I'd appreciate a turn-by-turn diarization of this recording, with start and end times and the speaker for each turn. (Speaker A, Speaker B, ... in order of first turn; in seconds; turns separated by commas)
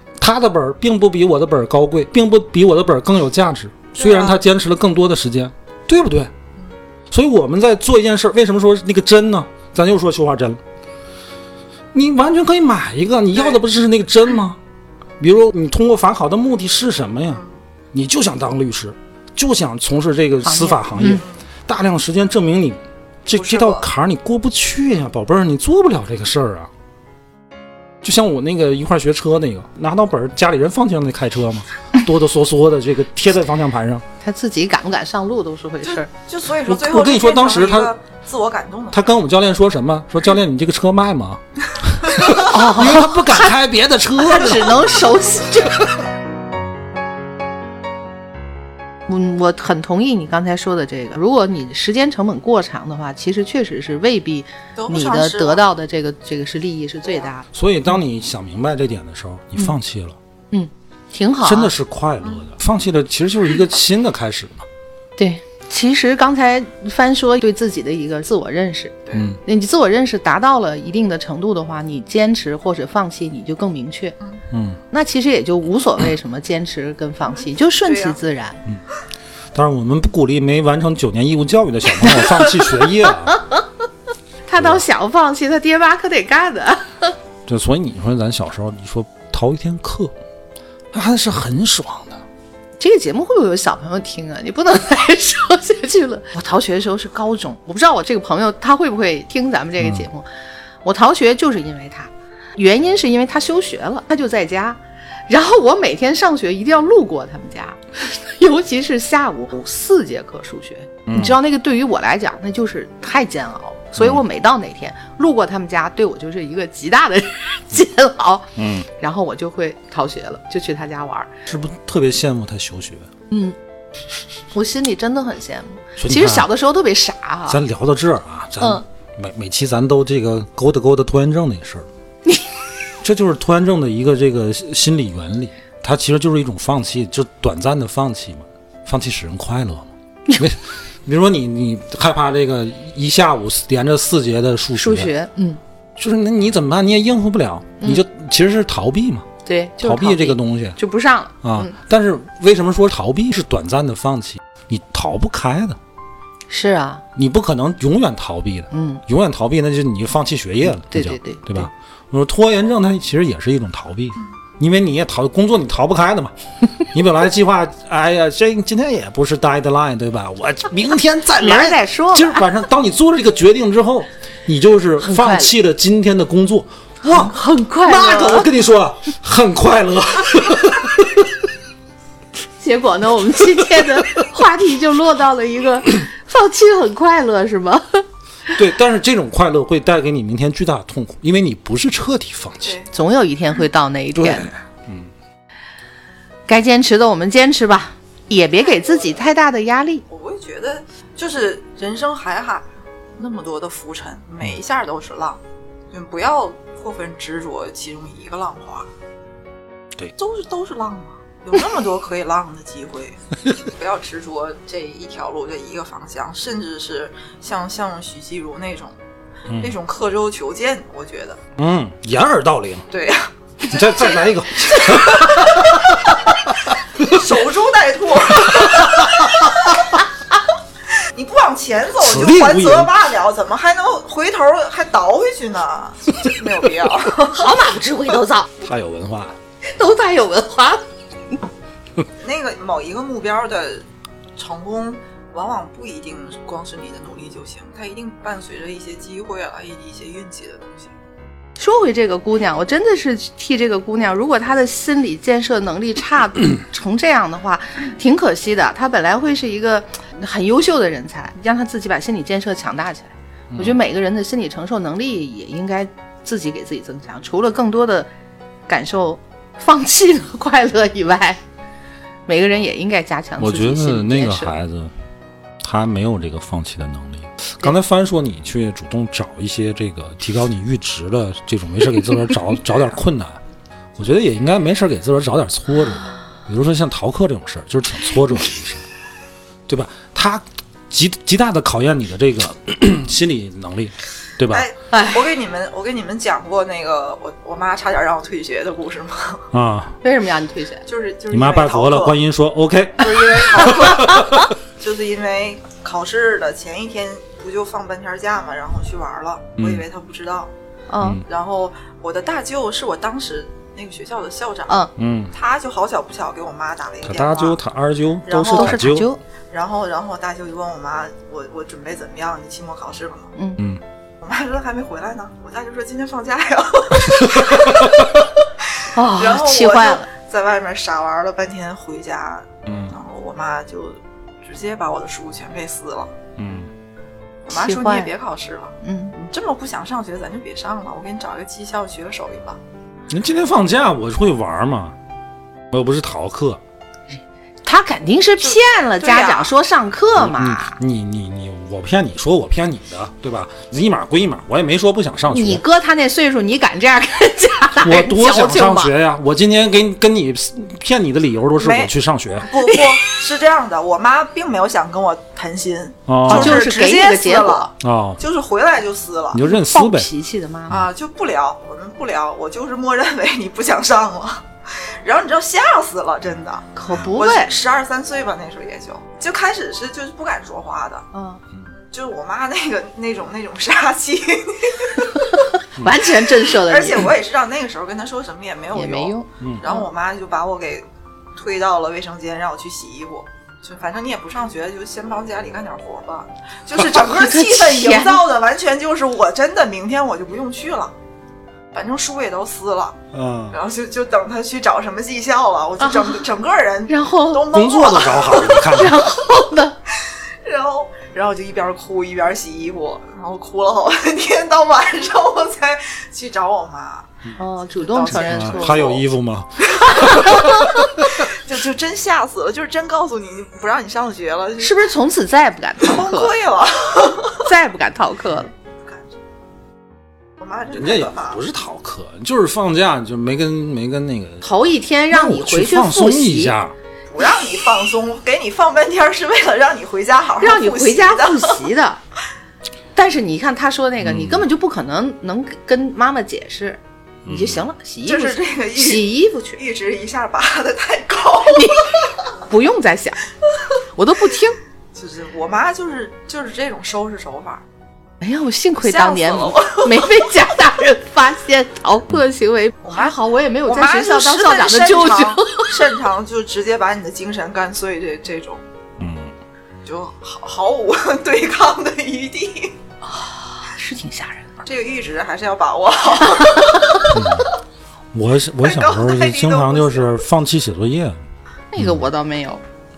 Speaker A: 0.2-6.3, Speaker B: 4.0-4.4, Speaker A: 7.1-10.6, Speaker A: 11.9-14.6, Speaker B: 13.3-13.6, Speaker A: 15.2-17.4, Speaker B: 17.3-17.6, Speaker A: 17.9-26.7, Speaker C: 20.4-21.2, Speaker B: 21.0-21.4, Speaker B: 23.3-23.9, Speaker A: 28.0-34.0, Speaker C: 34.2-36.1, Speaker B: 35.8-39.0, Speaker A: 36.7-37.9, Speaker A: 38.9-44.9, Speaker C: 42.4-43.5, Speaker C: 44.2-45.9, Speaker C: 49.1-57.4, Speaker B: 54.8-55.6, Speaker A: 57.5-60.2, Speaker C: 60.5-61.7, Speaker A: 61.4-64.7, Speaker B: 62.2-62.5, Speaker C: 65.2-74.1, Speaker B: 69.1-69.3, Speaker A: 69.1-69.4, Speaker A: 74.5-74.8, Speaker C: 74.9-78.6, Speaker B: 77.7-78.2, Speaker A: 79.5-83.4, Speaker C: 82.0-82.6, Speaker C: 83.3-83.6, Speaker C: 84.5-87.1, Speaker A: 84.6-84.8, Speaker A: 87.5-90.1, Speaker A: 90.9-92.2, Speaker C: 92.8-100.3, Speaker A: 99.8-100.1, Speaker C: 100.8-121.3, Speaker A: 111.1-111.4, Speaker A: 114.0-114.2, Speaker A: 118.6-118.9, Speaker A: 121.5-123.1, Speaker C: 123.3-123.6, Speaker C: 124.5-127.6, Speaker A: 126.0-126.5, Speaker A: 127.5-131.9, Speaker A: 133.0-145.1, Speaker C: 144.8-145.6, Speaker A: 146.0-149.3, Speaker C: 149.4-151.7, Speaker A: 149.8-150.8, Speaker A: 151.4-155.8, Speaker C: 156.5-157.0, Speaker A: 157.1-181.4, Speaker C: 158.7-159.0, Speaker C: 160.9-161.7, Speaker C: 171.4-172.4, Speaker C: 175.0-175.5, Speaker C: 177.1-178.5, Speaker C: 182.6-188.0, Speaker A: 188.6-192.8, Speaker B: 192.6-192.9, Speaker C: 192.9-194.5, Speaker A: 194.1-195.1, Speaker C: 196.5-200.0, Speaker B: 198.6-199.2, Speaker B: 200.1-202.7, Speaker B: 203.2-208.9, Speaker B: 210.2-219.0, Speaker A: 219.5-219.8, Speaker B: 219.6-221.4, Speaker A: 221.6-222.9, Speaker B: 222.9-224.1, Speaker A: 223.6-227.2, Speaker B: 224.7-225.8, Speaker B: 227.0-229.8, Speaker A: 228.5-229.3, Speaker B: 230.9-237.6, Speaker A: 232.0-232.9, Speaker C: 237.3-238.5, Speaker A: 238.6-239.4, Speaker C: 239.7-240.8, Speaker B: 242.2-243.9, Speaker B: 244.4-250.9, Speaker C: 251.6-268.1, Speaker A: 263.5-263.8, Speaker C: 268.7-271.4, Speaker C: 272.3-274.5, Speaker A: 273.4-274.9, Speaker A: 275.6-283.4, Speaker A: 284.0-288.8, Speaker A: 289.7-294.7, Speaker B: 294.5-299.5, Speaker C: 294.9-295.2, Speaker A: 299.5-300.0, Speaker C: 300.0-300.8, Speaker B: 300.9-302.2, Speaker A: 301.3-304.5, Speaker B: 303.0-310.5, Speaker A: 309.6-309.9, Speaker C: 310.9-311.2, Speaker B: 311.2-317.6, Speaker A: 315.0-315.3, Speaker A: 317.1-319.1, Speaker B: 318.3-318.9, Speaker C: 318.5-319.2, Speaker B: 319.5-323.3, Speaker B: 324.2-328.0, Speaker A: 327.2-327.9, Speaker B: 328.6-336.1, Speaker C: 328.9-330.1, Speaker A: 332.6-332.9, Speaker A: 336.4-336.7, Speaker B: 337.5-342.6, Speaker C: 337.5-338.1, Speaker C: 338.8-339.1, Speaker A: 343.1-345.0, Speaker A: 345.7-346.6, Speaker C: 347.6-350.8, Speaker B: 348.4-349.5, Speaker A: 350.1-355.6, Speaker C: 355.3-358.9, Speaker A: 357.8-362.5, Speaker B: 361.6-369.4, Speaker C: 362.6-363.0, Speaker A: 366.1-366.6, Speaker C: 366.3-367.7, Speaker A: 367.8-368.2, Speaker A: 369.3-370.1, Speaker C: 369.4-370.8, Speaker B: 370.7-381.1, Speaker C: 376.8-377.5, Speaker C: 381.1-381.4, Speaker B: 381.7-385.4, Speaker A: 385.8-386.0, Speaker C: 385.8-387.1, Speaker B: 386.5-400.9, Speaker C: 388.8-389.9, Speaker C: 396.9-398.2, Speaker B: 401.7-403.0, Speaker A: 403.1-403.6, Speaker B: 403.5-408.9, Speaker C: 405.8-406.1, Speaker C: 406.9-407.5, Speaker A: 407.5-409.1, Speaker C: 408.7-409.8, Speaker B: 409.9-419.0, Speaker C: 417.4-418.8, Speaker A: 418.1-420.9, Speaker B: 419.6-424.9, Speaker C: 420.0-420.7, Speaker C: 424.6-426.3, Speaker B: 425.8-427.5, Speaker C: 427.4-428.5, Speaker B: 430.4-431.4, Speaker A: 430.7-434.5, Speaker C: 434.4-436.5, Speaker A: 435.1-436.8, Speaker B: 437.1-441.6, Speaker C: 440.4-442.0, Speaker C: 442.9-449.6, Speaker A: 444.0-444.5, Speaker A: 447.2-447.7, Speaker B: 448.1-452.1, Speaker C: 451.5-451.9, Speaker C: 452.4-453.2, Speaker C: 453.9-454.6, Speaker B: 454.9-457.6, Speaker C: 458.2-465.7, Speaker B: 458.8-460.4, Speaker B: 462.8-468.6, Speaker A: 469.0-469.3, Speaker B: 469.9-472.8, Speaker C: 473.1-474.5, Speaker B: 474.6-477.2, Speaker C: 476.2-477.1, Speaker A: 477.1-477.5, Speaker A: 478.1-481.2, Speaker B: 478.6-480.2, Speaker C: 481.7-482.6, Speaker A: 481.8-482.1